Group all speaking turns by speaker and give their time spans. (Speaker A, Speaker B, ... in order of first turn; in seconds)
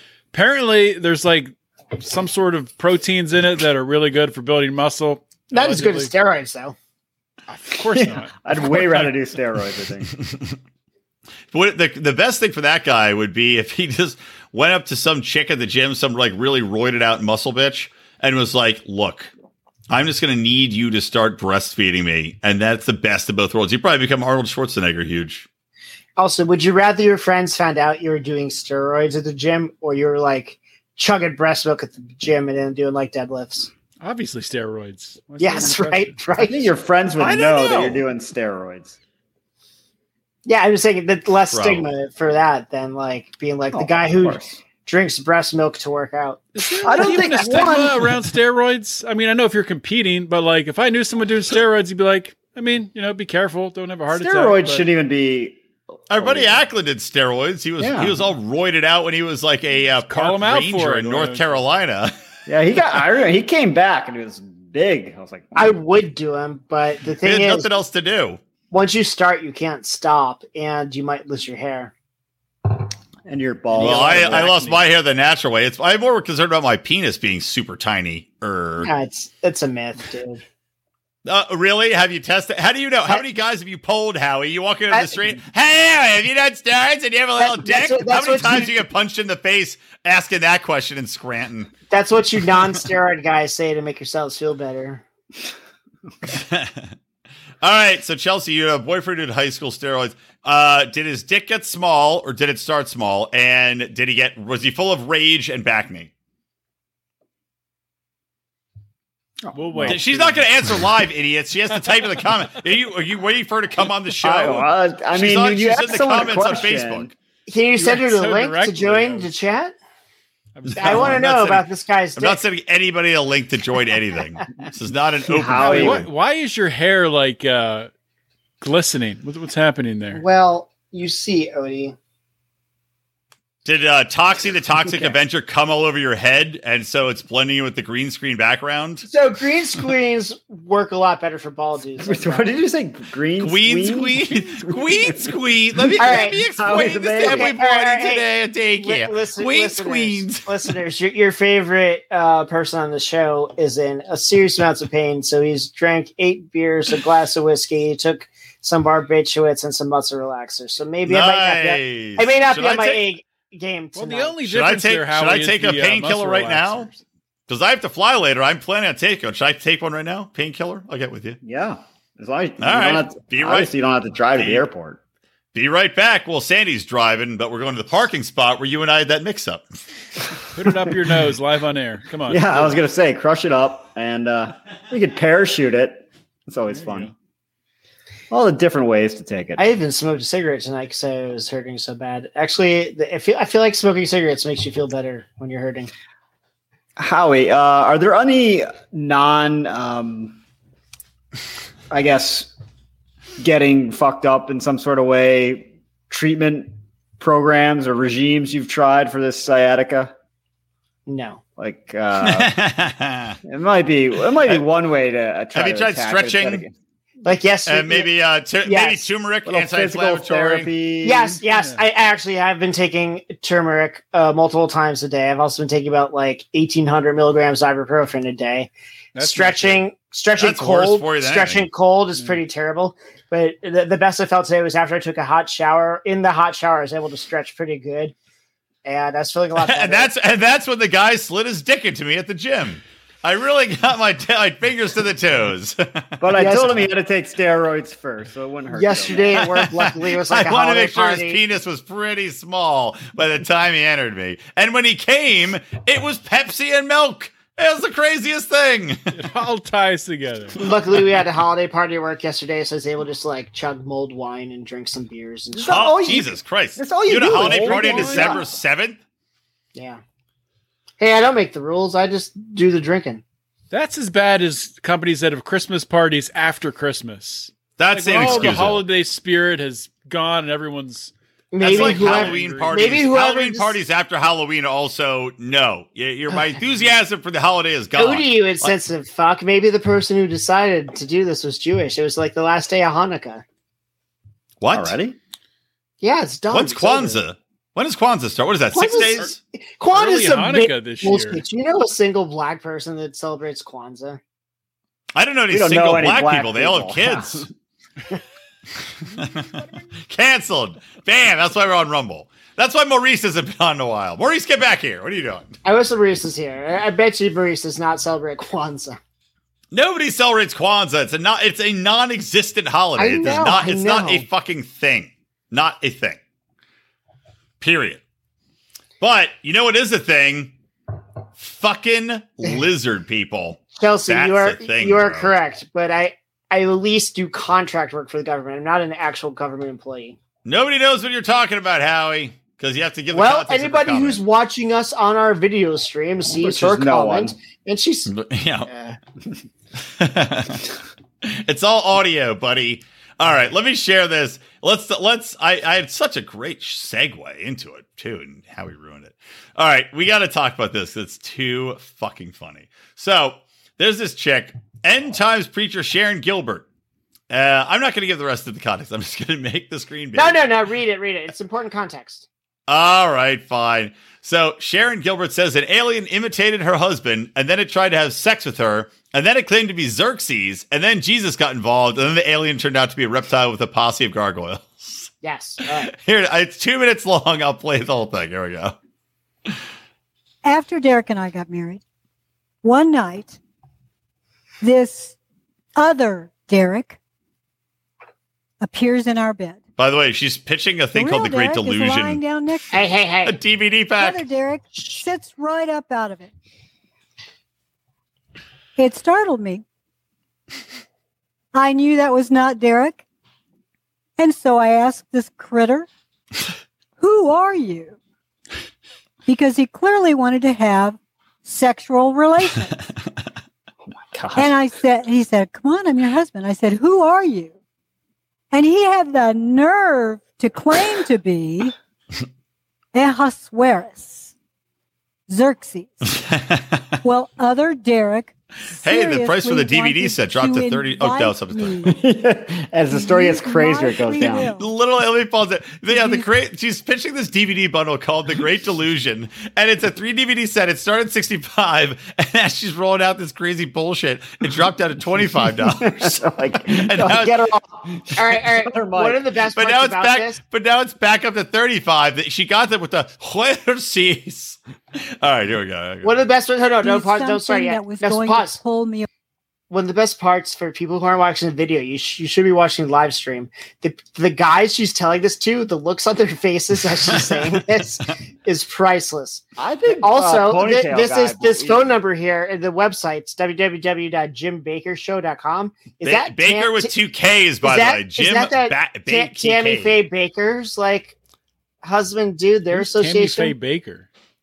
Speaker A: 0.3-6.1, 7.5-9.1, 34.0-36.2, 37.2-38.0, 46.5-54.9, 60.1-61.6, 74.4-74.7, 109.5-110.7, 117.8-119.3, 120.5-121.2, 125.5-127.9, 128.6-130.2, 163.9-167.0, 180.5-182.8, 186.7-187.1, 221.5-221.8, 229.1-229.8, 259.1-260.6, 267.3-268.4, 273.7-283.0, 299.9-301.4, 492.7-494.1
Speaker B: 5.5-6.8, 26.2-33.7, 35.4-36.7, 40.5-47.2, 65.5-67.7, 68.7-71.9, 73.8-74.4, 78.8-80.4, 87.4-88.7, 91.9-95.0, 117.5-119.8, 120.8-122.4, 130.1-132.0, 139.1-142.6, 146.0-148.3, 148.8-164.4, 189.6-195.9, 211.1-211.4, 217.2-218.1, 218.6-219.1, 221.0-238.1, 238.8-240.1, 246.4-246.9, 248.7-251.4, 260.6-265.9, 269.8-270.0, 271.0-273.2, 278.2-278.6, 281.5-283.8, 288.0-293.4, 296.0-297.2, 298.7-304.2, 315.6-319.0, 323.0-324.2, 333.8-340.2, 343.1-348.1, 348.7-349.0, 370.1-372.3, 385.2-385.9, 402.7-403.4, 458.1-460.4, 466.0-468.6, 469.7-486.9, 487.6-491.1, 491.8-493.5
Speaker C: 7.8-10.1, 36.4-39.0, 43.7-44.6, 46.8-48.1, 54.1-55.6, 56.1-56.6, 57.8-58.2, 62.5-65.8, 73.3-74.8, 109.4-110.0, 114.2-117.1, 125.3-126.1, 142.0-147.6, 171.4-175.0, 182.3-187.1, 188.3-189.7, 197.0-200.4, 201.9-202.5, 203.4-210.1, 211.6-212.5, 213.4-216.7, 219.4-221.4, 246.2-249.5, 265.5-268.5, 278.2-278.7, 294.7-295.2, 305.5-307.5, 346.4-347.4, 423.9-424.5, 441.9-444.5, 455.7-459.2, 479.6-482.0
Speaker D: 10.2-10.5, 11.5-19.3, 19.9-25.5, 41.5-41.9, 56.1-62.1, 67.2-68.4, 73.8-78.9, 81.2-91.7, 96.3-96.9, 97.6-106.1, 109.8-117.1, 120.7-121.7, 122.2-126.1, 133.7-139.1, 143.4-150.5, 161.0-163.1, 164.4-166.9, 167.5-171.4, 172.6-173.7, 174.3-174.7, 175.5-179.6, 212.2-213.4, 215.6-216.6, 217.7-220.7, 230.4-231.7, 239.6-246.2, 249.3-259.2, 265.7-269.0, 277.8-278.8, 281.6-288.8, 294.6-295.0, 296.5-299.4, 305.1-307.5, 309.2-309.5, 310.1-315.6, 319.7-326.2, 327.6-328.0, 329.0-330.5, 331.4-335.3, 340.4-344.2, 348.1-348.7, 350.0-350.7, 351.2-366.7, 367.3-370.4, 372.7-385.1, 385.6-388.8, 399.8-402.2, 403.2-404.2, 436.2-436.9, 438.8-441.9, 444.6-456.2, 456.7-457.4, 459.6-466.1, 477.1-477.4, 486.0-490.0
Speaker E: 390.4-391.8, 392.6-393.4, 394.6-395.2, 395.8-397.0, 398.6-399.6, 400.9-402.9, 404.0-406.3, 408.8-409.6, 411.5-413.1, 414.2-415.9, 417.0-418.0, 419.3-422.8, 424.4-427.6, 428.5-431.8, 432.9-434.3, 435.3-436.2, 437.0-441.9, 442.9-444.7, 445.9-446.3, 466.8-469.1